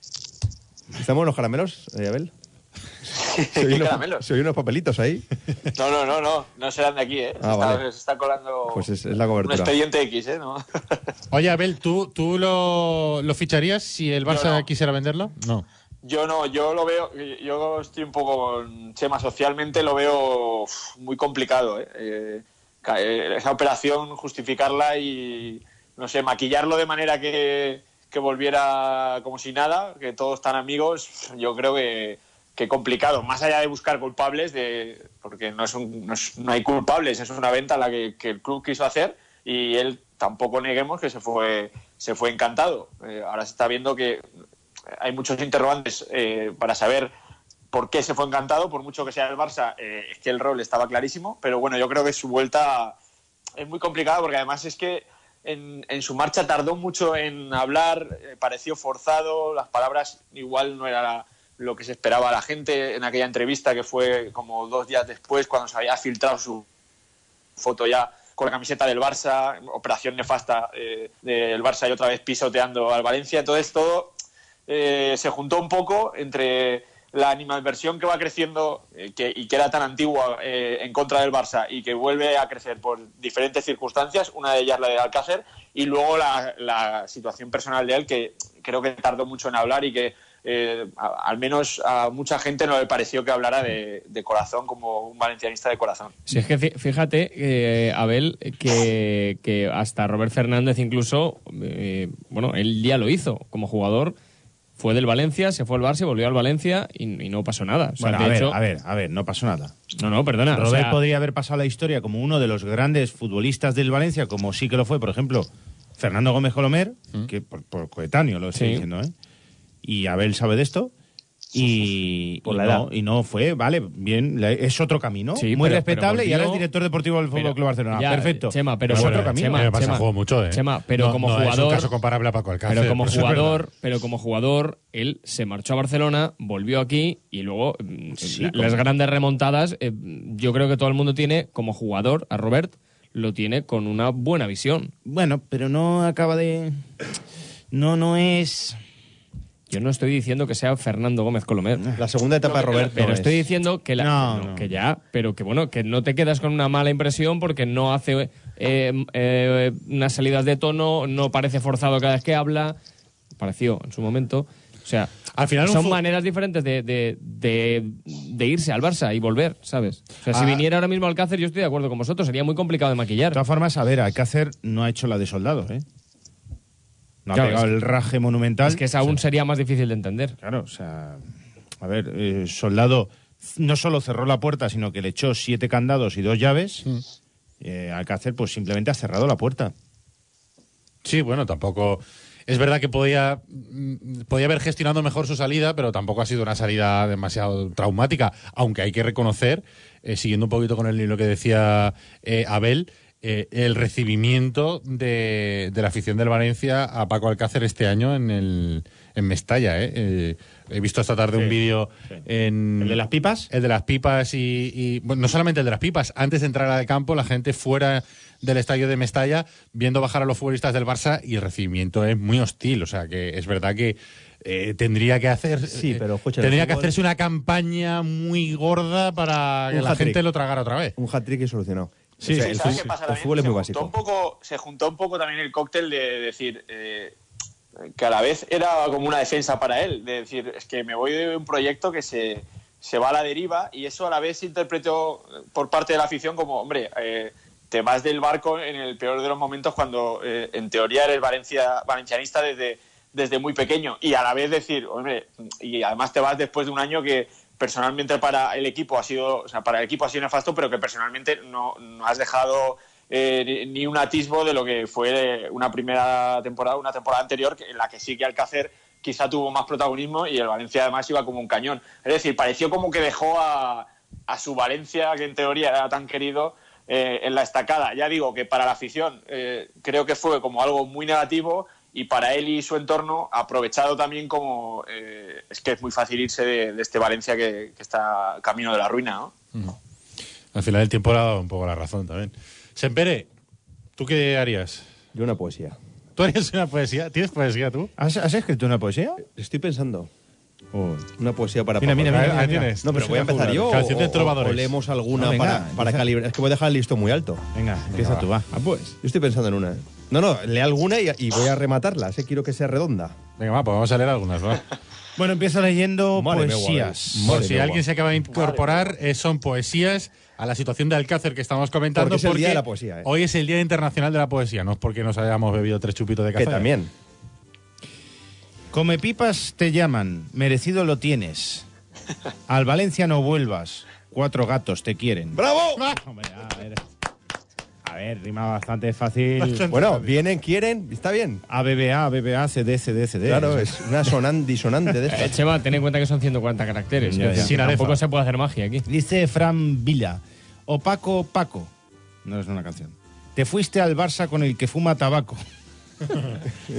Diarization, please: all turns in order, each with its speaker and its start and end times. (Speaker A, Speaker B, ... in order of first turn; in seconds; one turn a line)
Speaker A: 0.9-2.3
Speaker B: 3.1-4.2
Speaker A: 3.5-5.2
Speaker B: 5.7-8.9
Speaker A: 7.4-7.8
Speaker A: 8.7-9.7
Speaker B: 9.4-11.0
Speaker C: 11.3-15.6
Speaker B: 14.3-14.7
Speaker B: 16.0-44.2
Speaker B: 45.0-47.1
Speaker B: 47.7-53.0
Speaker B: 53.6-66.6
Speaker B: 67.6-74.1
Speaker B: 74.7-96.2
Speaker D: 96.3-104.1
Speaker D: 104.8-108.6
Speaker E: 108.0-109.8
Speaker D: 110.0-111.0
Speaker E: 110.5-119.1
Speaker D: 118.5-118.8
Speaker E: 119.8-120.9
Speaker E: 121.5-129.7
Speaker A: 122.4-122.9
Speaker D: 125.3-126.7
Speaker D: 127.3-131.9
Speaker C: 128.9-133.6
Speaker D: 132.7-144.9
Speaker E: 138.2-138.8
Speaker E: 145.0-146.8
Speaker E: 147.7-148.8
Speaker D: 149.7-151.8
Speaker E: 151.8-152.0
Speaker A: 151.9-153.5
Speaker B: 152.4-153.0
Speaker D: 152.9-162.8
Speaker E: 154.0-154.7
Speaker D: 163.4-173.4
Speaker C: 165.3-166.0
Speaker C: 170.3-170.6
Speaker E: 173.3-175.8
Speaker E: 177.2-178.8
Speaker D: 177.3-177.7
Speaker D: 178.7-180.3
Speaker E: 180.4-186.8
Speaker E: 187.6-189.7
Speaker C: 191.0-230.9
Speaker E: 212.8-213.5
Speaker A: 225.7-226.9
Speaker A: 229.7-230.2
Speaker A: 231.0-233.9
Speaker C: 232.2-232.8
Speaker B: 232.3-237.1
Speaker B: 237.9-289.3
Speaker C: 290.5-293.3
Speaker C: 294.0-294.9
Speaker A: 295.1-295.8
Speaker C: 296.2-297.9
Speaker E: 298.0-299.2
Speaker A: 299.3-300.1
Speaker E: 300.7-301.1
Speaker A: 301.2-307.4
Speaker E: 301.8-303.8
Speaker C: 302.0-304.7
Speaker E: 305.1-306.1
Speaker E: 307.5-309.0
Speaker C: 307.9-308.3
Speaker A: 309.0-313.2
Speaker C: 313.4-314.6
Speaker E: 315.1-317.5
Speaker A: 316.1-317.8
Speaker C: 317.2-326.7
Speaker B: 318.3-318.9
Speaker A: 321.9-323.1
Speaker A: 326.4-326.9
Speaker E: 328.7-331.7
Speaker E: 332.5-336.9
Speaker A: 335.3-335.8
Speaker E: 337.8-340.1
Speaker A: 339.7-341.4
Speaker E: 341.5-343.8
Speaker A: 343.2-345.4
Speaker D: 345.1-348.8
Speaker E: 347.1-347.6
Speaker C: 347.3-348.0
Speaker E: 348.9-351.7
Speaker E: 352.2-355.4